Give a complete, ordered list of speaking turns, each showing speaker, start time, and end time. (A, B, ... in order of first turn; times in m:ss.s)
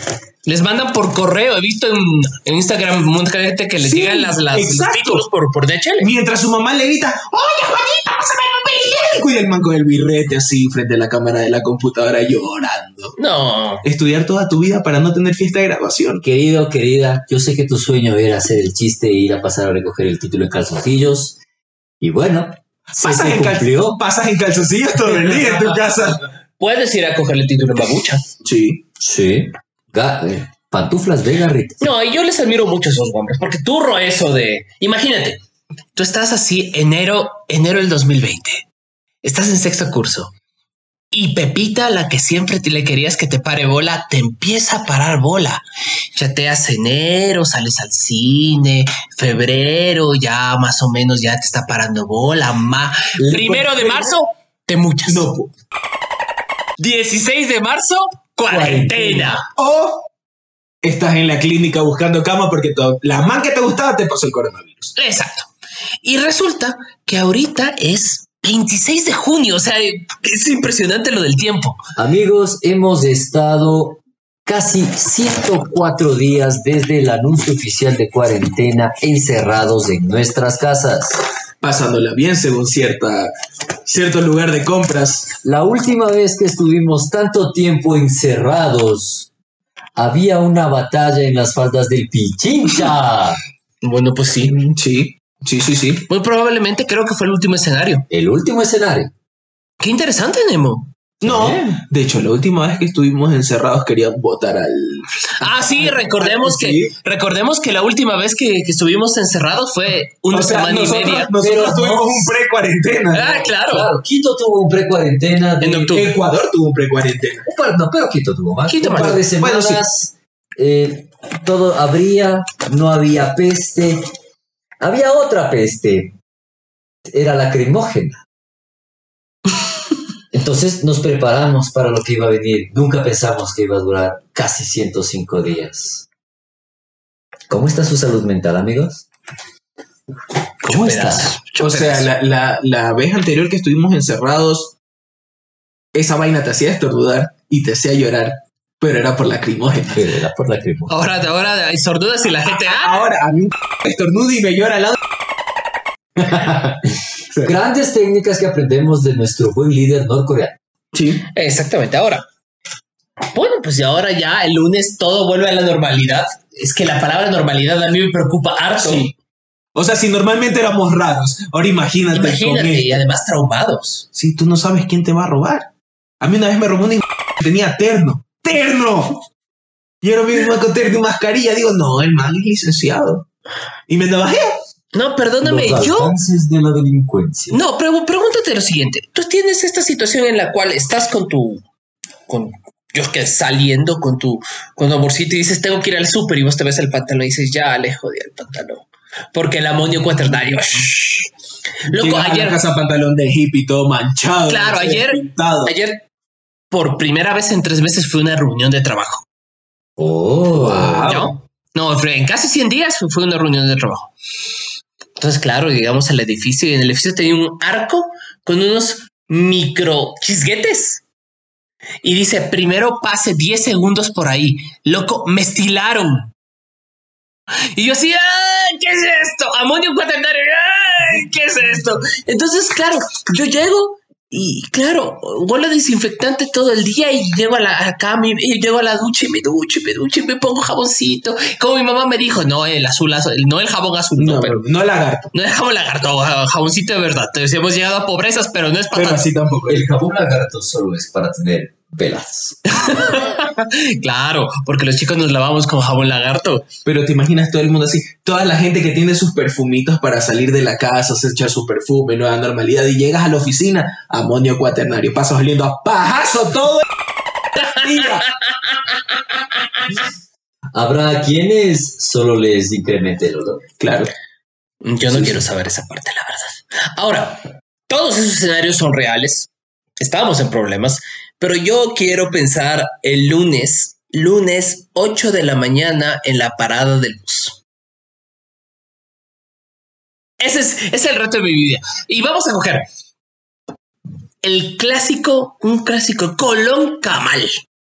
0:00.4-0:06.1 A
0:03.8-0:05.2 B
0:06.0-0:13.1 B
0:13.2-0:13.8 A
0:13.8-0:16.2 B
0:16.2-0:21.4 C
0:22.0-0:24.0 C
0:22.9-0:26.2 B
0:26.6-0:28.2 A
0:28.4-0:28.8 B
0:29.0-0:31.8 C
0:31.8-0:35.4 A
0:35.9-0:38.6 A
0:39.2-0:40.3 A
0:41.1-0:55.3 A
0:53.2-0:53.5 C
0:53.4-0:54.1 B
0:55.0-0:55.5 B
0:56.8-0:59.5 A
0:58.5-0:59.4 C
0:59.6-1:00.0 B
1:00.8-1:04.9 B
1:05.0-1:05.5 A
1:06.0-1:11.8 A
1:12.0-1:21.2 C
1:21.6-1:23.3 B
1:23.8-1:25.3 B
1:25.4-1:29.3 C
1:30.0-1:33.4 C
1:33.8-1:34.7 A
1:34.7-1:36.0 B
1:36.1-1:38.1 A
1:38.1-1:39.1 C
1:39.8-1:40.9 A
1:41.2-1:41.8 C
1:41.2-1:46.9 B
1:45.4-1:51.3 A
1:50.3-1:53.4 B
1:51.4-1:52.3 C
1:53.1-1:53.9 A
1:53.4-1:55.9 C
1:55.6-1:56.1 A
1:55.9-1:57.4 B
1:57.4-2:04.0 C
1:58.6-1:59.2 A
1:58.8-1:59.8 B
2:04.8-2:06.1 C
2:07.0-2:08.2 C
2:10.3-2:16.1 C
2:17.5-2:19.0 C
2:20.6-2:22.1 A
2:20.6-2:21.4 C
2:21.6-2:24.7 B
2:25.9-2:30.2 B
2:29.9-2:31.2 C
2:30.9-2:33.0 A
2:32.5-2:35.0 B
2:36.2-2:40.6 C
2:40.9-2:41.2 B
2:41.3-2:42.2 A
2:43.3-2:49.1 A
2:48.8-2:49.1 B
2:49.7-2:53.0 B
2:52.1-2:54.0 A
2:54.1-2:55.7 B
2:56.2-2:59.2 B
3:00.0-3:03.2 B
3:03.9-3:04.5 B
3:04.9-3:06.2 A
3:05.4-3:07.6 C
3:07.5-3:11.6 A
3:12.3-3:21.3 A
3:21.9-3:22.6 A
3:21.9-3:25.7 B
3:24.4-3:26.0 A
3:26.7-3:29.2 A
3:30.0-3:31.4 C
3:30.5-3:31.3 B
3:31.0-3:34.1 A
3:35.2-3:41.0 A
3:42.0-3:46.3 A
3:47.7-4:04.6 A
4:04.2-4:05.3 B
4:05.3-4:09.2 A
4:08.9-4:09.9 B
4:09.7-4:12.6 C
4:12.7-4:16.7 A
4:16.8-4:26.8 B
4:27.7-4:28.3 B
4:29.8-4:30.0 A
4:30.7-4:33.6 C
4:33.8-4:34.1 B
4:34.8-4:47.6 A
4:35.0-4:35.4 B
4:50.4-4:52.8 A
4:54.4-4:57.5 A